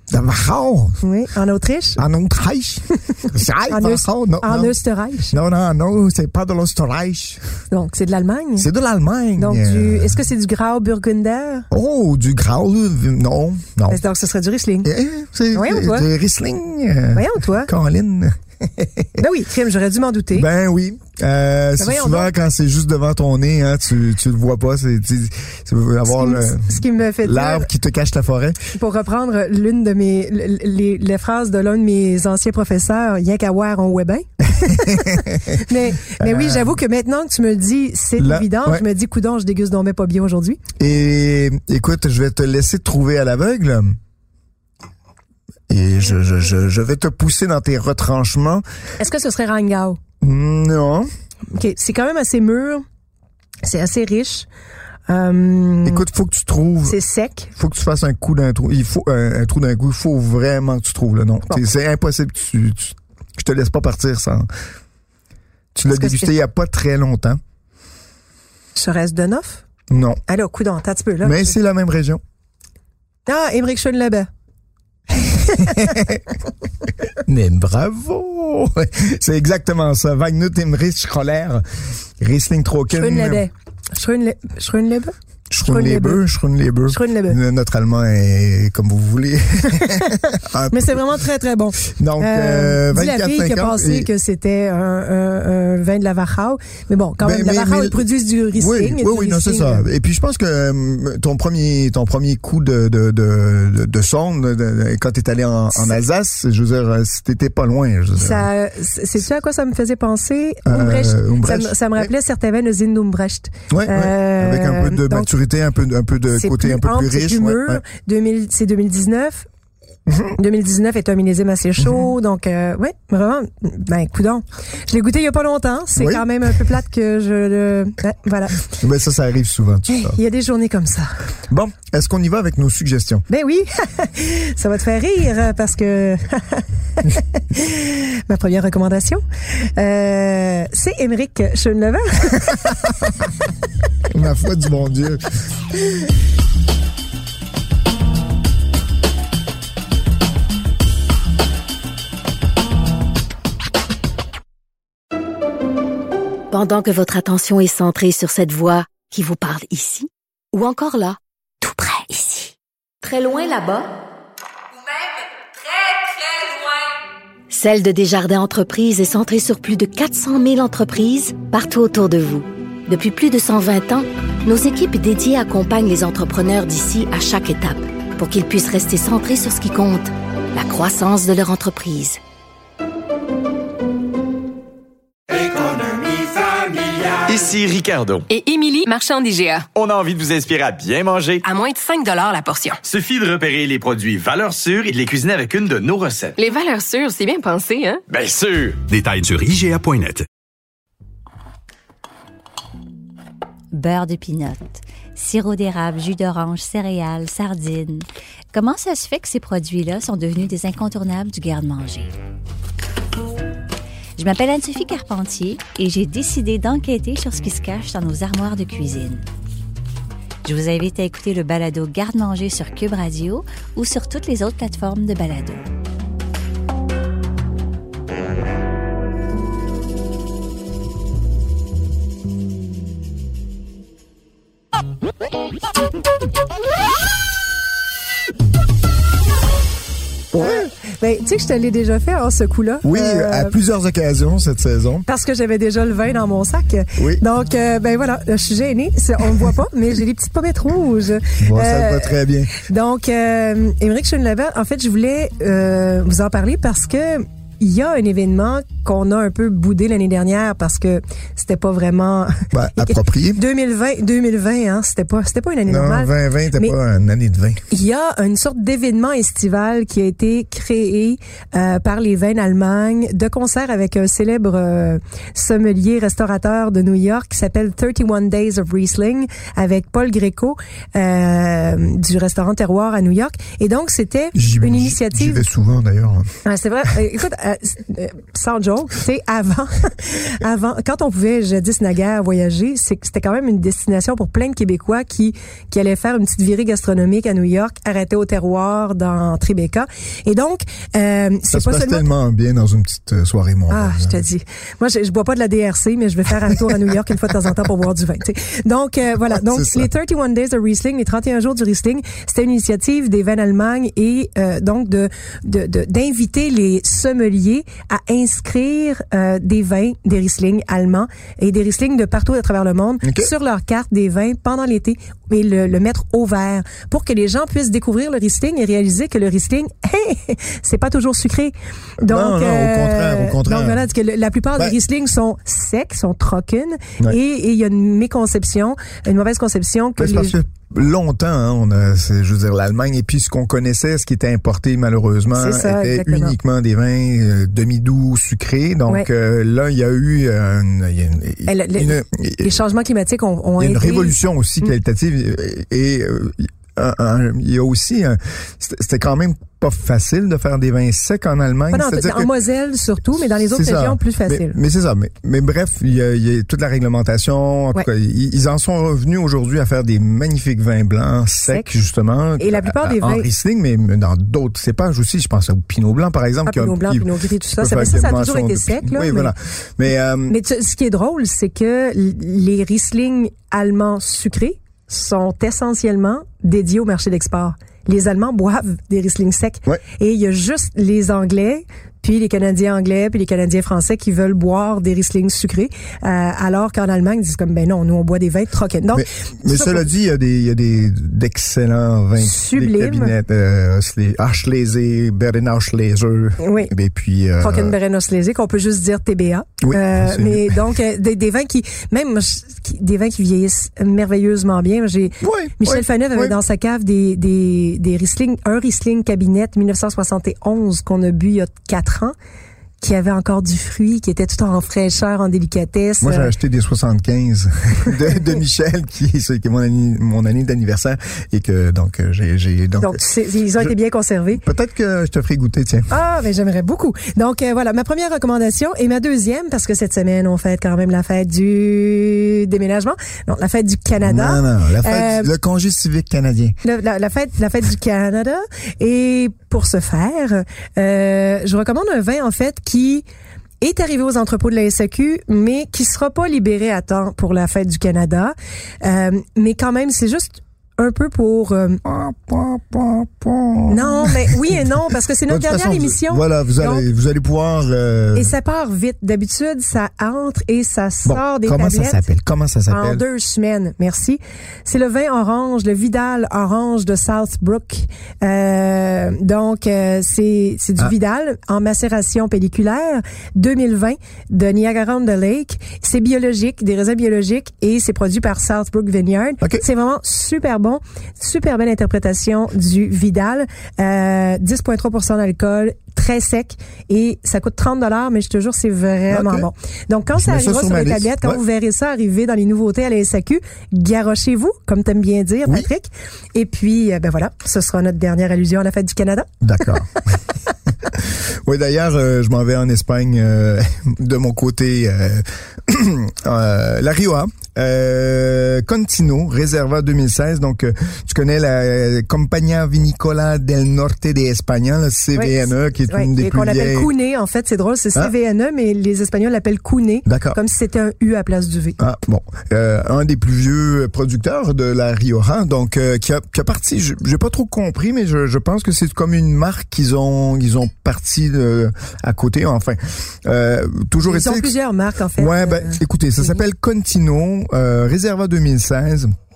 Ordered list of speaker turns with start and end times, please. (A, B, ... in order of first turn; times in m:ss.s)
0:00.1-0:01.0 A
0:01.0-0:02.0 B
0:02.0-0:04.8 A
0:03.7-0:05.4 B
0:05.3-0:07.4 A
0:07.7-0:08.7 B
0:08.6-0:10.2 A
0:09.4-0:11.7 B
0:11.7-0:14.0 A
0:13.9-0:14.9 B
0:14.8-0:19.2 A
0:15.5-0:16.1 B
0:17.1-0:17.7 B
0:19.2-0:20.5 B
0:20.3-0:28.7 A
0:21.8-0:22.3 B
0:26.1-0:27.7 B
0:28.7-0:40.6 B
0:34.5-0:36.8 A
0:38.2-0:38.8 A
0:40.8-0:44.0 A
0:45.7-0:48.6 A
0:49.0-0:50.0 B
0:50.2-0:51.1 A
0:51.5-0:52.8 B
0:53.6-0:54.5 B
0:55.1-0:56.0 B
0:55.8-0:57.0 A
0:56.8-0:57.5 B
0:57.5-1:04.5 A
1:05.7-1:07.4 A
1:05.9-1:06.3 B
1:08.8-1:09.6 B
1:09.9-1:10.2 A
1:10.3-1:11.6 B
1:11.2-1:12.2 A
1:13.3-1:14.3 B
1:15.2-1:16.0 B
1:15.6-1:16.2 A
1:17.2-1:21.6 A
1:22.2-1:23.4 A
1:23.0-1:25.1 B
1:25.5-1:31.0 A
1:25.6-1:26.2 B
1:26.9-1:27.4 B
1:29.8-1:30.2 B
1:30.7-1:39.9 B
1:31.8-1:34.1 A
1:37.2-1:38.0 A
1:38.6-1:48.5 A
1:45.7-1:46.0 B
1:48.2-1:55.3 B
1:50.7-1:52.1 A
1:53.7-1:57.8 A
1:56.4-1:59.5 B
2:00.1-2:00.4 A
2:00.4-2:08.7 B
2:01.8-2:02.1 A
2:06.0-2:06.3 A
2:08.7-2:10.2 A
2:09.9-2:11.1 B
2:11.5-2:13.3 A
2:13.3-2:22.6 B
2:24.1-2:25.2 A
2:36.5-2:43.9 C
2:44.7-2:47.0 D
2:47.5-3:02.2 C
3:07.0-3:08.3 E
3:08.3-3:09.7 D
3:09.8-3:11.4 E
3:11.4-3:12.8 D
3:12.8-3:16.4 E
3:16.4-3:18.0 D
3:18.1-3:20.3 E
3:23.7-3:32.1 F
3:34.2-3:39.2 F
3:40.4-3:45.6 F
4:00.3-4:00.7 A
4:00.4-4:03.6 B
4:02.8-4:05.1 A
4:05.1-4:26.8 B
4:07.0-4:07.2 A
4:11.4-4:12.6 A
4:22.5-4:23.4 A
4:25.7-4:27.6 A
4:27.7-4:45.4 B
4:44.4-4:46.3 A
4:46.4-5:02.1 B
5:01.5-5:04.2 A
5:03.7-5:40.4 B
5:09.3-5:09.9 A
5:23.0-5:23.3 A
5:32.0-5:33.8 A
5:40.0-5:52.5 A
5:45.3-5:46.4 B
5:51.5-5:54.2 B
5:53.6-6:02.3 A
6:01.7-6:04.6 B
6:03.5-6:20.4 A
6:12.4-6:13.3 B
6:16.5-6:19.3 B
6:20.3-6:39.9 B
6:38.9-6:47.8 A
6:42.2-6:43.1 B
6:46.4-6:46.7 B
6:47.4-7:02.2 B
6:49.6-6:50.6 A
6:55.2-6:56.4 A
7:02.8-7:06.3 B
7:06.0-7:13.0 A
7:12.8-7:14.4 B
7:14.4-7:15.9 A
7:15.9-7:25.3 B
7:24.0-7:26.6 A
7:26.6-7:33.0 B
7:33.6-7:41.8 B
7:41.8-7:44.6 A
7:43.7-7:46.8 B
7:45.3-7:48.3 A
7:48.2-7:52.1 B
7:51.0-7:53.0 A
7:52.7-8:29.3 B
8:19.1-8:19.5 A
8:20.1-8:21.4 A
8:29.4-8:29.9 A
8:30.9-8:46.9 A
8:45.2-8:51.8 B
8:50.1-8:50.4 A
8:51.8-9:04.6 A
9:04.0-9:06.4 B
9:05.2-9:09.1 A